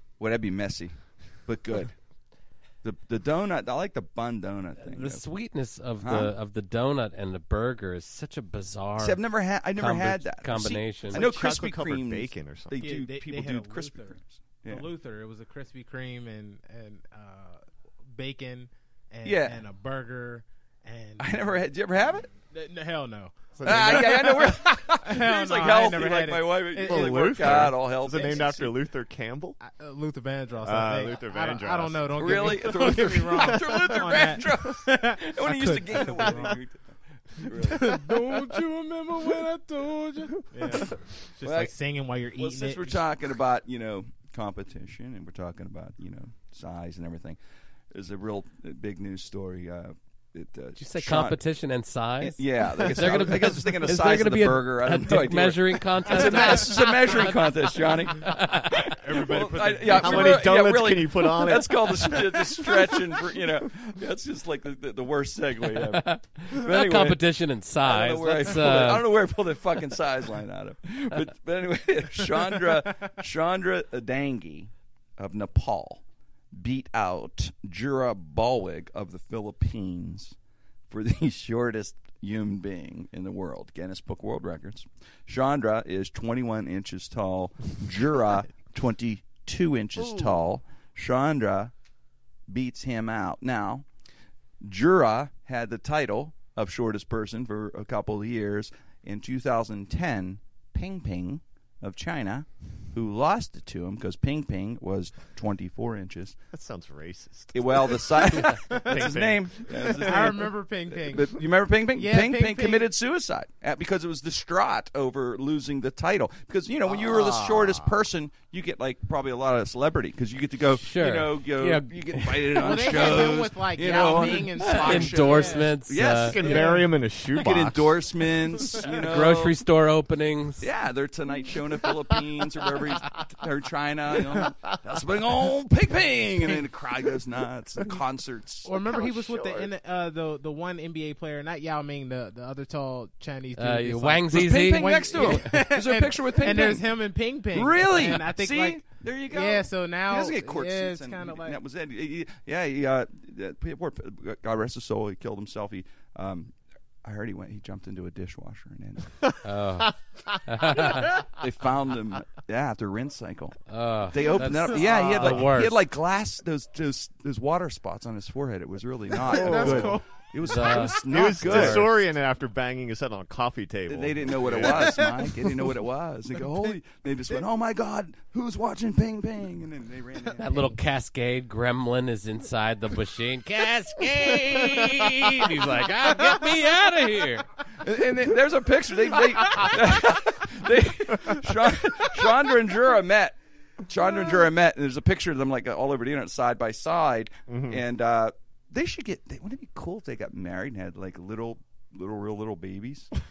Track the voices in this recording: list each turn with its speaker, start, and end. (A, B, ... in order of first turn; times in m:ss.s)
0:00.2-0:01.0 A
0:01.5-0:01.9 A
0:02.8-0:05.3 A
0:04.8-0:09.2 B
0:06.0-0:06.3 A
0:09.0-0:14.9 A
0:09.8-0:11.2 B
0:11.1-0:12.9 C
0:12.8-0:17.6 D
0:18.1-0:21.6 D
0:19.2-0:19.6 A
0:21.2-0:22.3 A
0:22.4-0:28.5 D
0:23.6-0:24.3 C
0:23.6-0:28.7 A
0:26.8-0:29.6 C
0:29.6-0:36.6 D
0:30.6-0:32.9 C
0:32.2-0:38.0 A
0:37.5-0:43.0 D
0:41.4-0:41.7 A
0:42.4-0:47.4 A
0:47.9-0:51.4 A
0:50.8-0:58.8 B
0:52.2-1:07.2 A
0:58.9-1:00.4 D
0:59.9-1:03.0 C
1:05.8-1:09.1 B
1:07.8-1:16.0 A
1:16.5-1:20.4 A
1:20.9-1:31.7 A
1:32.5-1:33.9 A
1:34.6-1:46.4 A
1:46.5-1:50.4 C
1:47.5-2:06.6 A
1:48.7-1:49.1 D
1:49.9-1:52.9 D
1:56.9-1:58.0 C
2:00.8-2:03.3 B
2:02.6-2:05.7 D
2:04.0-2:06.6 B
2:06.3-2:08.0 C
2:06.4-2:06.8 D
2:07.3-2:09.6 A
2:08.8-2:10.7 B
2:10.6-2:18.7 A
2:18.6-2:31.6 D
2:18.7-2:19.7 C
2:23.6-2:25.6 B
2:24.3-2:27.0 A
2:27.5-2:39.2 A
2:39.4-2:41.2 B
2:40.7-2:43.6 A
2:43.7-2:45.8 B
2:44.1-2:51.9 A
2:49.2-2:50.1 D
2:49.3-2:50.0 C
2:50.4-2:51.9 B
2:51.0-2:55.0 C
2:53.9-3:00.7 A
2:54.6-2:55.7 D
3:00.4-3:07.5 B
3:07.7-3:23.1 A
3:17.5-3:17.8 C